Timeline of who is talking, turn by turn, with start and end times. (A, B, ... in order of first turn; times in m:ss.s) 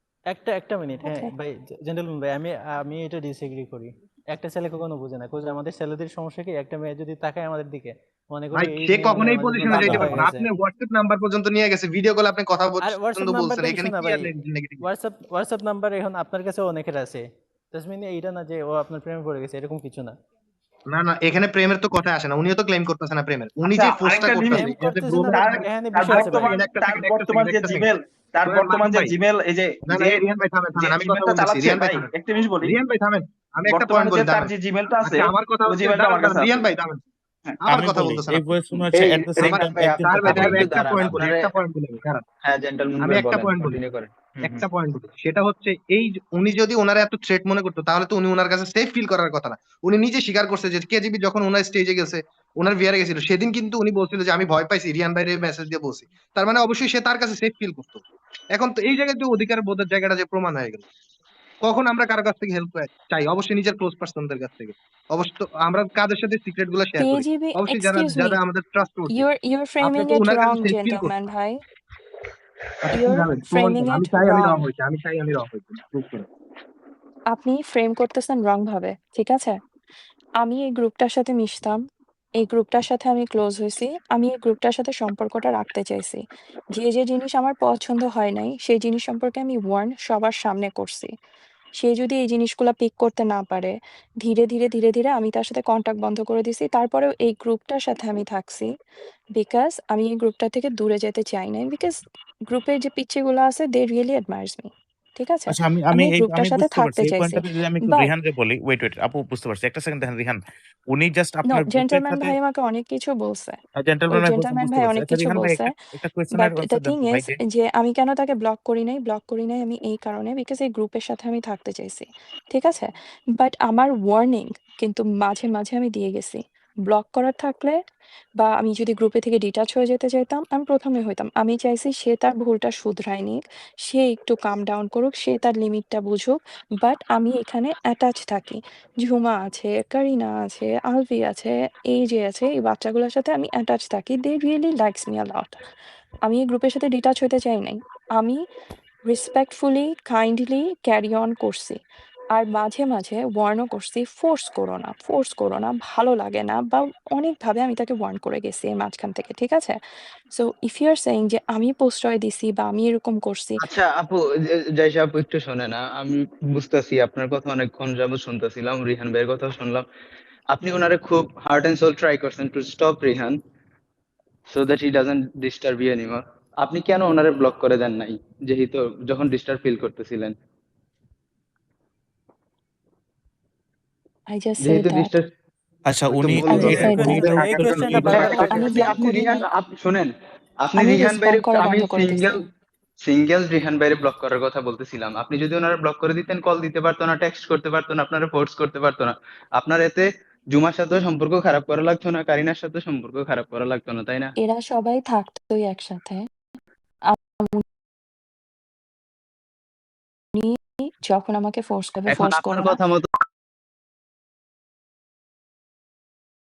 0:00.3-0:10.5 A
0:01.0-0:01.3 B
0:08.5-0:14.8 C
0:09.6-0:10.2 D
0:12.8-0:20.1 A
0:20.9-0:27.9 C
0:23.6-0:24.7 E
0:24.5-0:26.7 A
0:25.2-0:30.2 E
0:28.5-0:29.1 C
0:29.9-0:32.1 C
0:30.8-0:32.8 E
0:32.6-0:34.5 C
0:33.7-0:36.6 E
0:35.0-0:37.0 C
0:37.6-0:38.5 C
0:37.7-0:41.2 D
0:38.9-0:41.5 F
0:39.4-0:42.2 C
0:42.4-0:44.6 F
0:43.0-0:43.8 C
0:44.4-0:58.0 C
0:58.5-1:00.8 C
1:01.6-1:09.2 C
1:07.0-1:08.4 B
1:09.1-1:11.6 B
1:09.8-1:11.1 C
1:12.8-1:16.3 C
1:12.9-1:14.6 B
1:17.3-1:19.6 B
1:20.4-1:21.8 B
1:22.4-1:26.2 B
1:26.7-1:31.1 B
1:31.8-1:38.7 B
1:39.4-1:48.1 B
1:45.5-1:52.3 D
1:51.5-1:53.6 B
1:53.8-1:57.4 D
1:54.1-1:55.7 B
1:56.3-2:07.8 B
2:08.4-2:25.6 B
2:26.2-2:28.4 B
2:29.1-2:31.8 B
2:32.3-2:39.8 B
2:40.3-2:43.7 B
2:43.6-2:49.8 F
2:50.5-2:53.4 F
2:54.5-3:00.3 F
3:04.3-3:05.1 B
3:04.6-3:05.3 F
3:05.9-3:08.4 D
3:06.3-3:08.6 C
3:06.4-3:09.1 A
3:06.4-3:07.0 F
3:06.5-3:07.2 B
3:07.7-3:12.4 F
3:08.4-3:09.4 B
3:10.7-3:12.4 B
3:13.0-3:24.3 F
3:24.4-3:26.3 B
3:27.1-3:27.6 B
3:30.4-3:32.8 B
3:32.1-3:33.1 F